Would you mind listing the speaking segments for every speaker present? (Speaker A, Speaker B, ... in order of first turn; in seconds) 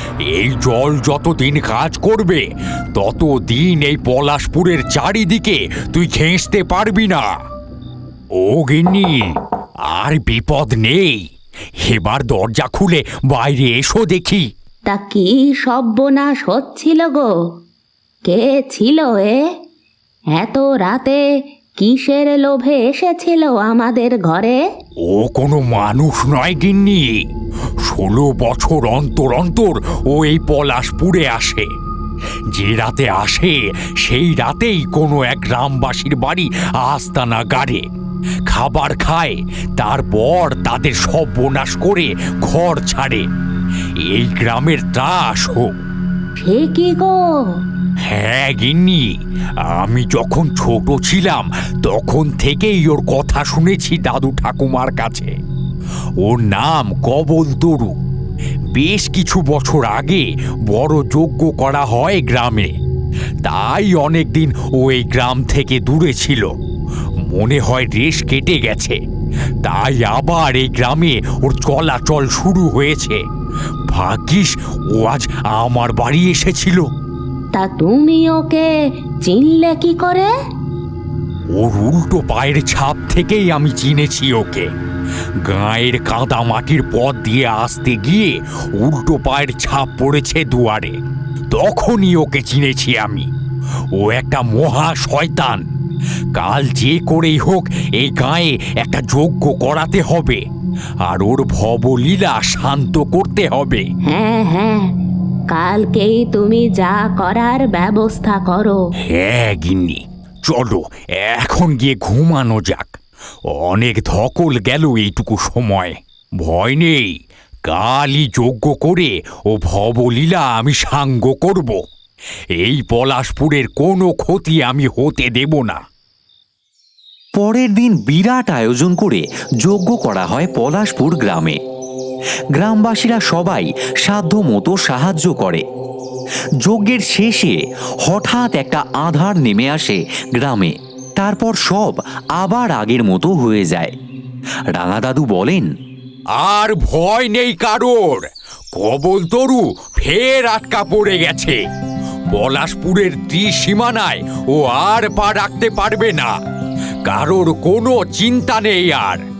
Speaker A: 0.2-7.3, 8.4-9.3, 9.9-11.2, 11.8-14.4, 25.0-27.2, 27.8-31.7, 32.5-37.8, 38.5-43.3, 44.1-45.7, 48.1-49.1, 49.7-55.3, 56.2-57.9, 58.7-62.7, 63.4-66.5, 67.2-69.0, 69.6-73.2, 73.9-76.9, 81.5-84.7, 85.5-91.0, 91.5-93.3, 94.0-95.6, 96.3-100.4, 101.0-103.8, 109.1-112.9, 113.5-121.8, 122.6-125.8, 146.4-151.6, 152.3-156.3, 157.0-159.2
Speaker B: 14.9-17.3, 18.2-19.4, 20.4-21.2, 21.8-24.6, 46.4-47.2, 77.5-78.7, 79.2-80.3, 104.1-104.8, 105.5-108.8
Speaker C: 127.3-131.6, 132.5-135.6, 136.6-143.9, 144.7-145.7